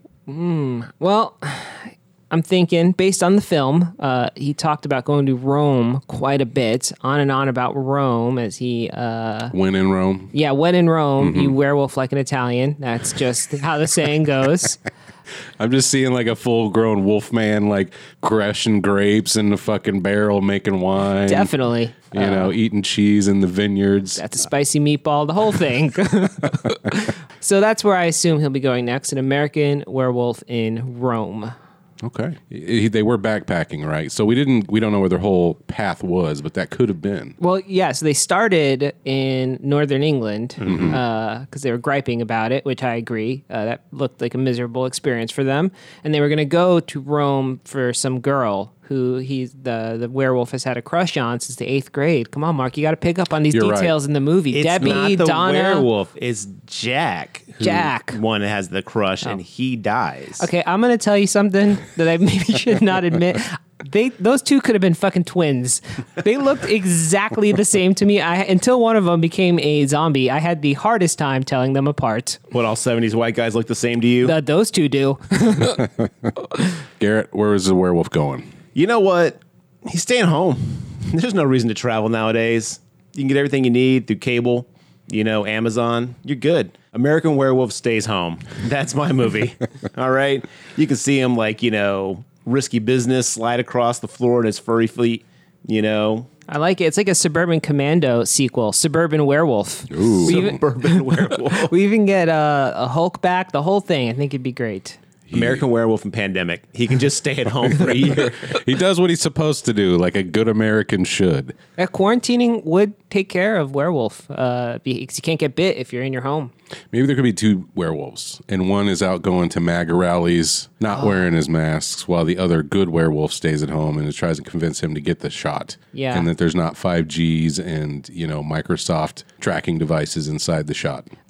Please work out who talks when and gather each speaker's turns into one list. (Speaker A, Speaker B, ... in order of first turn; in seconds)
Speaker A: 0.3-9.5, 10.3-14.8, 21.3-22.5, 24.2-31.6, 37.4-55.9, 57.6-58.2, 60.4-72.4, 74.2-75.8, 96.5-105.0, 111.8-116.5, 125.9-126.3
Speaker B: 9.5-10.3, 11.2-11.5, 15.6-21.5, 22.1-24.2, 32.0-37.4, 40.7-41.0, 53.5-53.9, 75.8-76.1, 77.0-78.5, 99.9-100.6, 105.3-105.6, 108.5-111.5, 116.9-131.1
Speaker C: 40.6-40.9, 54.5-60.5, 72.5-74.3, 78.8-96.3, 100.2-101.7, 105.3-108.5